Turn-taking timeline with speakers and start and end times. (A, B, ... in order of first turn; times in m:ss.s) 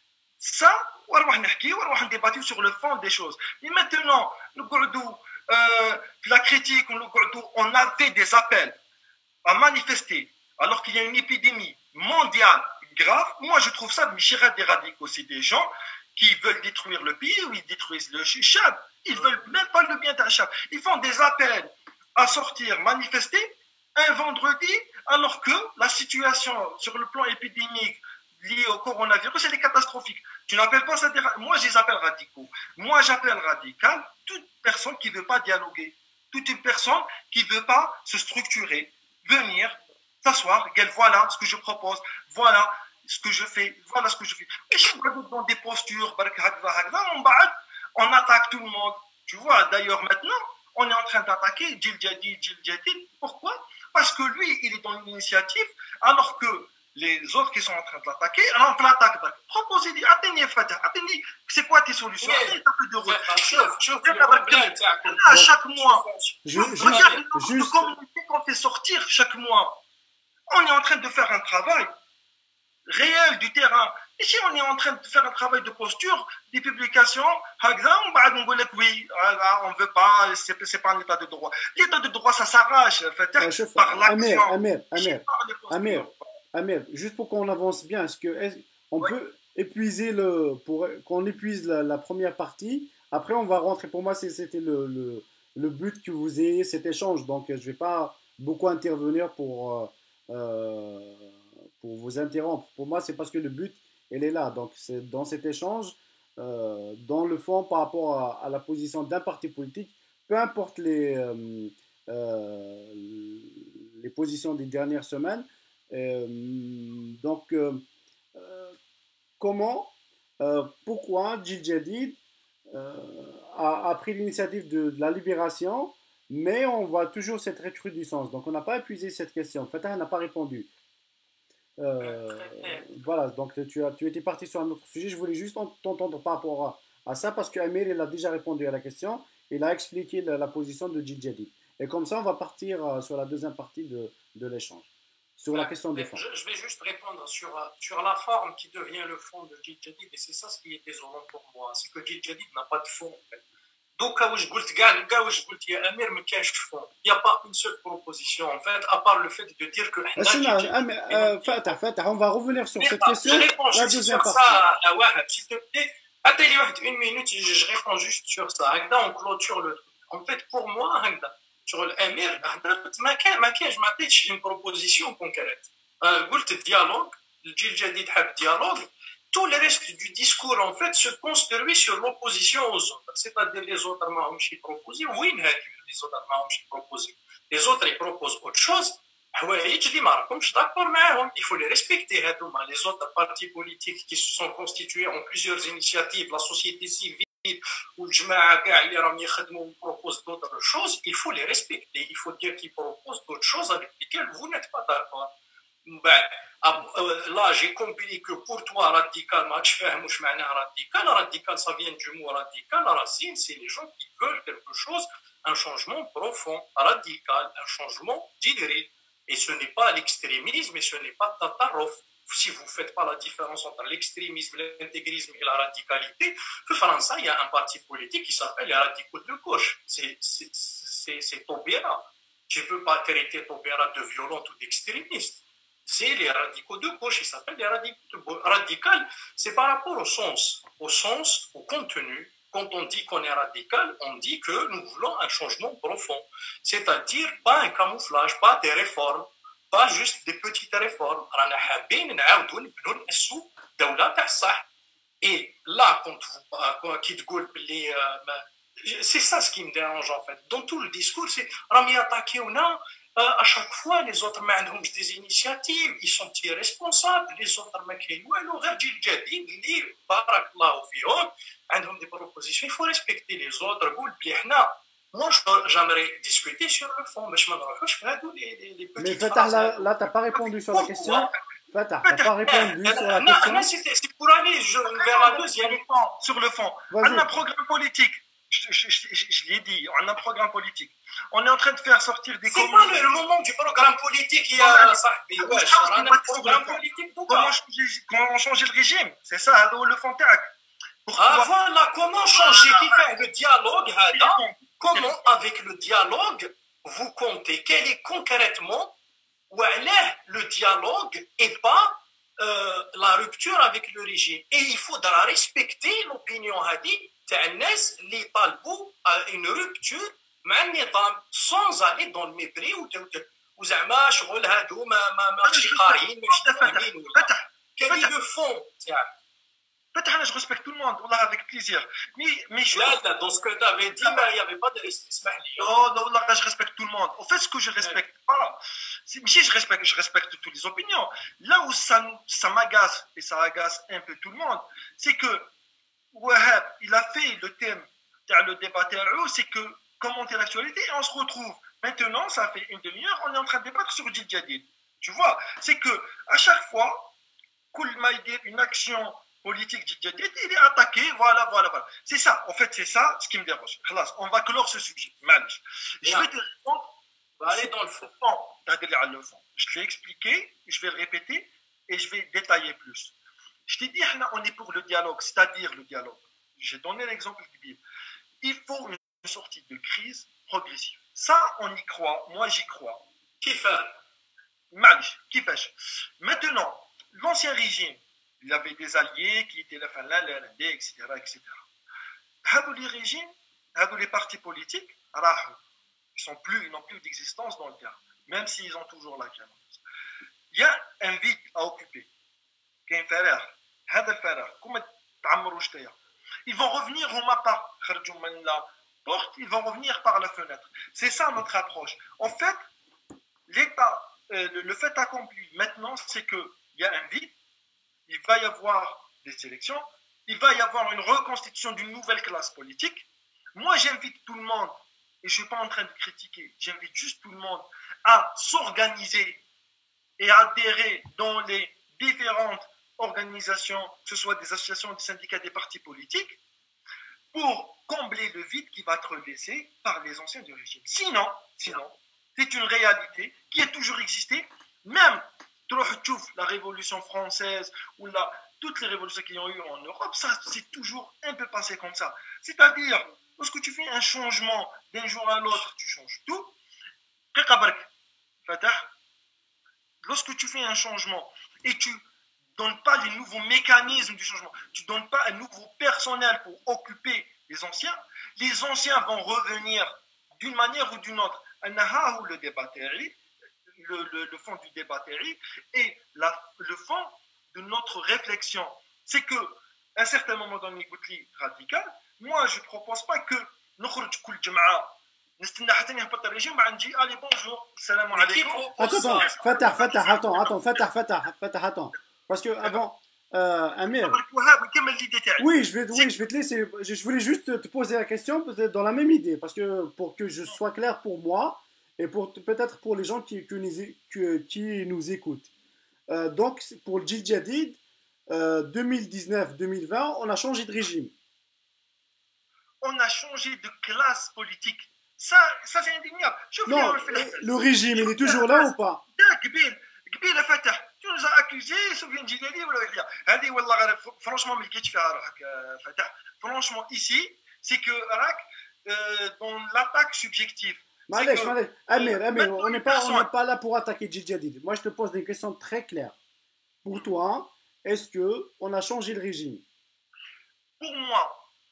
0:00.4-0:08.8 A
0:09.4-1:06.0 A
1:02.2-1:07.2 B
1:06.4-1:08.0 C
1:06.6-1:09.8 A
1:10.5-1:11.9 A
1:12.9-1:26.2 A
1:23.4-1:58.8 C
1:59.4-2:02.2 C
2:02.7-2:10.7 C
2:11.8-2:26.2 C
2:12.0-2:13.0 B
2:25.5-2:33.4 B
2:34.0-2:41.8 B
2:40.2-2:44.6 C
2:42.8-3:25.3 B
3:25.9-4:14.6 B
4:15.2-4:41.4 B
4:39.0-4:43.7 C
4:42.0-4:42.5 A
4:42.4-4:45.8 B
4:44.9-4:53.1 A
4:46.9-4:47.3 C
4:52.5-4:57.5 B
4:54.6-5:00.6 A
5:01.1-5:01.5 A
5:01.2-5:09.0 B
5:02.3-5:03.1 A
5:04.1-5:05.3 A
5:09.5-5:29.1 B
5:25.4-5:28.1 A
5:30.0-5:33.0 A
5:32.7-5:35.7 B
5:34.0-5:34.3 A
5:35.6-5:45.5 A
5:46.1-5:57.1 A
5:57.7-6:06.9 A
6:06.0-6:06.3 B
6:07.4-6:08.1 B
6:07.5-6:13.1 A
6:13.7-6:17.8 A
6:18.4-6:23.0 A
6:23.4-6:24.0 B
6:24.7-6:31.6 A
6:32.4-6:35.6 A
6:36.2-6:39.8 A
6:40.5-6:42.1 A
6:42.9-6:46.0 A
6:46.5-6:52.6 A
6:53.5-6:57.4 A
6:58.1-7:09.4 A
7:10.2-7:16.4 A
7:17.3-7:36.6 A
7:37.3-7:37.9 A
7:38.5-7:38.9 A
7:40.0-7:42.0 A
7:42.6-7:53.2 A
7:53.8-8:10.8 A
8:08.1-8:10.0 B
8:08.8-8:14.2 C
8:14.0-8:16.2 A
8:15.4-8:25.5 C
8:26.1-8:31.1 C
8:32.8-8:53.3 A
8:36.7-8:39.0 C
8:51.1-8:56.2 C
8:56.8-8:59.6 C
9:00.8-9:01.5 A